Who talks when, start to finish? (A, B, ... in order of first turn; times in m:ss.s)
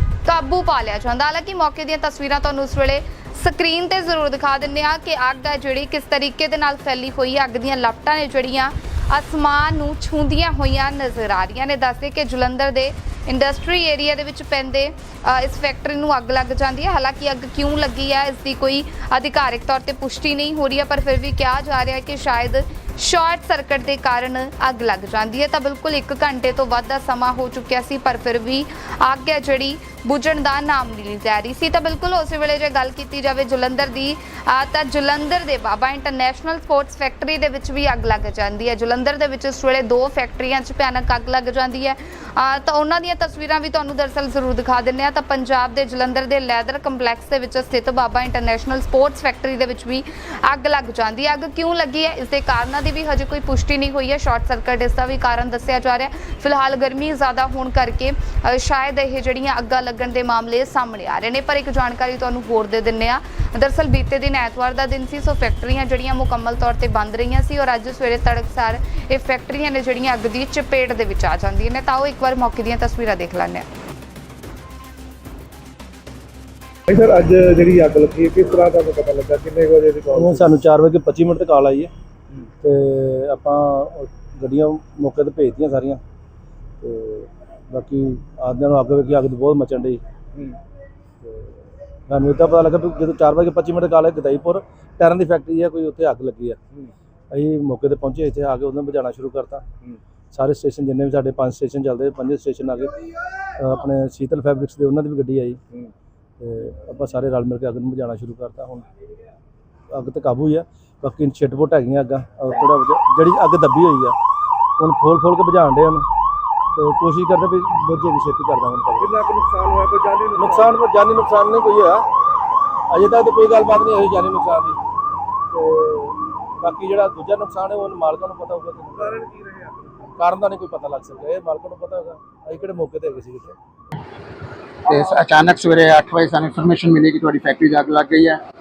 0:00.2-1:13.6 A
1:16.9-1:20.4 B
1:20.1-1:21.9 C
1:22.6-1:26.0 C
1:26.8-1:30.0 C
1:31.2-1:36.6 C
1:37.3-1:39.7 C
1:40.3-1:42.9 C
1:43.6-1:45.6 C
1:46.4-1:48.8 C
1:49.9-1:54.2 C
1:54.8-1:56.0 C
1:56.8-1:59.1 C
1:59.0-2:00.6 B
2:00.4-2:02.0 C
2:02.9-2:04.8 C
2:05.5-2:09.2 C
2:09.0-2:10.0 B
2:10.2-2:13.6 C
2:14.8-2:18.4 D